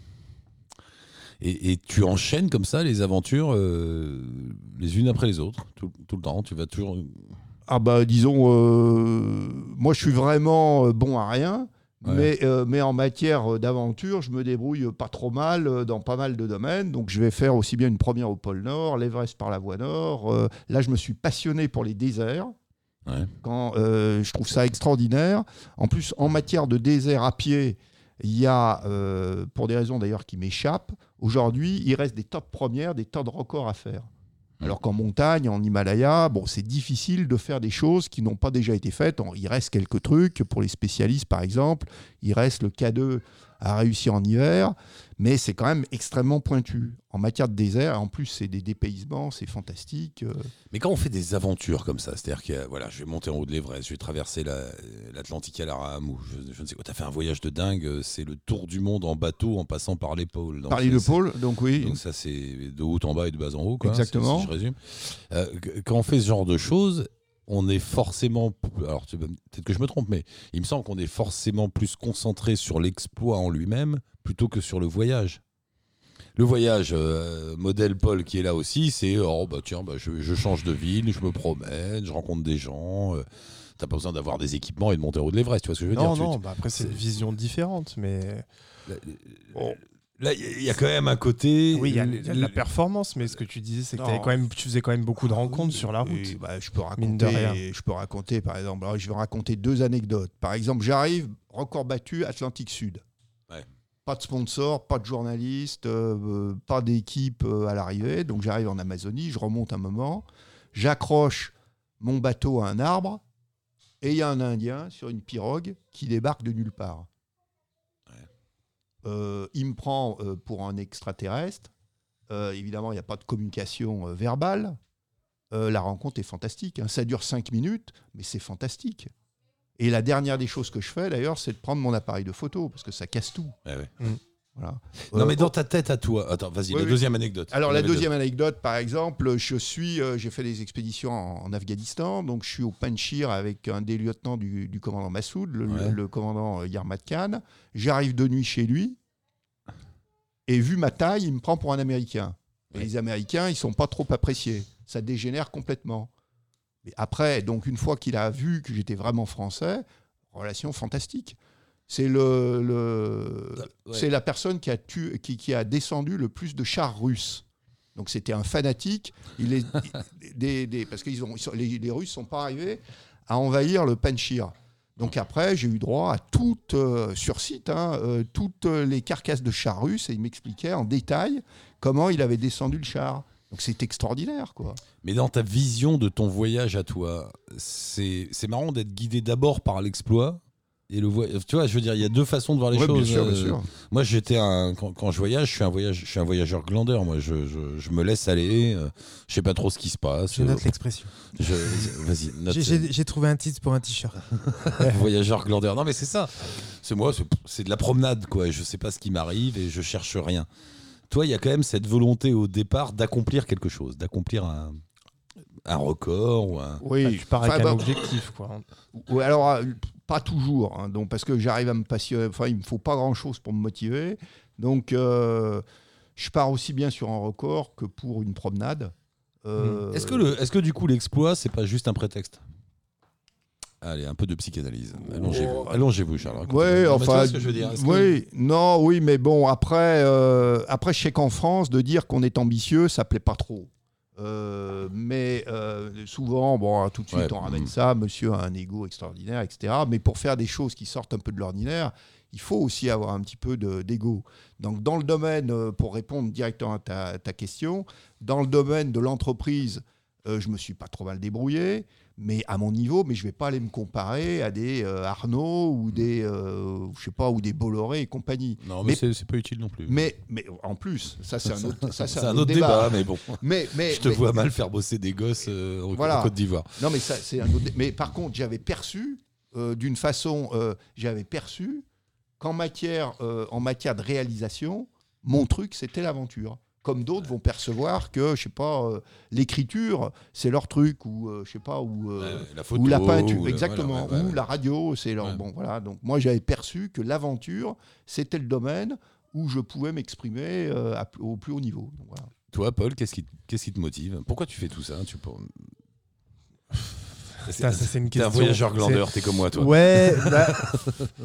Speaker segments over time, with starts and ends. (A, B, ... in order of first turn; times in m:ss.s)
0:01.4-0:07.4 A
0:07.7-0:22.5 B
0:12.0-0:12.3 A
0:23.0-0:23.3 A
0:23.4-0:34.1 B
0:34.6-0:50.5 B
0:50.7-1:01.2 A
1:00.7-1:02.0 B
1:01.8-1:15.4 A
1:03.8-1:04.5 B
1:16.4-1:23.2 A
1:23.8-1:27.0 A
1:25.9-1:28.4 C
1:28.9-1:32.6 A
1:31.7-1:36.4 C
1:34.0-1:34.3 B
1:35.4-1:43.0 B
1:37.0-1:37.6 C
1:44.0-1:53.2 B
1:54.0-1:57.1 B
1:59.0-2:01.7 B
2:02.3-2:04.8 B
2:05.5-2:09.1 B
2:09.8-2:13.5 B
2:13.6-2:13.9 A
2:14.6-2:15.5 B
2:15.0-2:18.1 A
2:16.7-2:29.0 B
2:25.7-2:26.0 A
2:30.5-2:36.1 B
2:36.8-2:41.4 B
2:41.9-3:04.8 B
2:43.7-2:44.0 A
3:05.0-3:20.7 A
3:12.7-3:13.7 B
3:20.3-3:21.9 D
3:21.3-3:22.9 A
3:22.5-3:24.2 D
3:24.4-3:30.5 A
3:31.1-3:34.8 A
3:35.6-3:36.8 A
3:36.8-3:37.9 B
3:37.0-3:38.6 C
3:38.9-3:45.6 B
3:46.2-3:50.3 B
3:49.6-3:52.4 A
3:53.8-3:58.2 A
3:55.0-3:55.8 B
3:56.4-4:29.0 B
4:07.1-4:07.7 A
4:28.6-4:30.1 A
4:29.8-4:34.2 B
4:31.6-4:36.9 A
4:35.9-4:41.8 B
4:42.4-5:02.3 B
4:52.2-4:54.4 A
5:02.5-5:05.7 A
5:07.4-5:11.1 A
5:07.5-5:10.6 C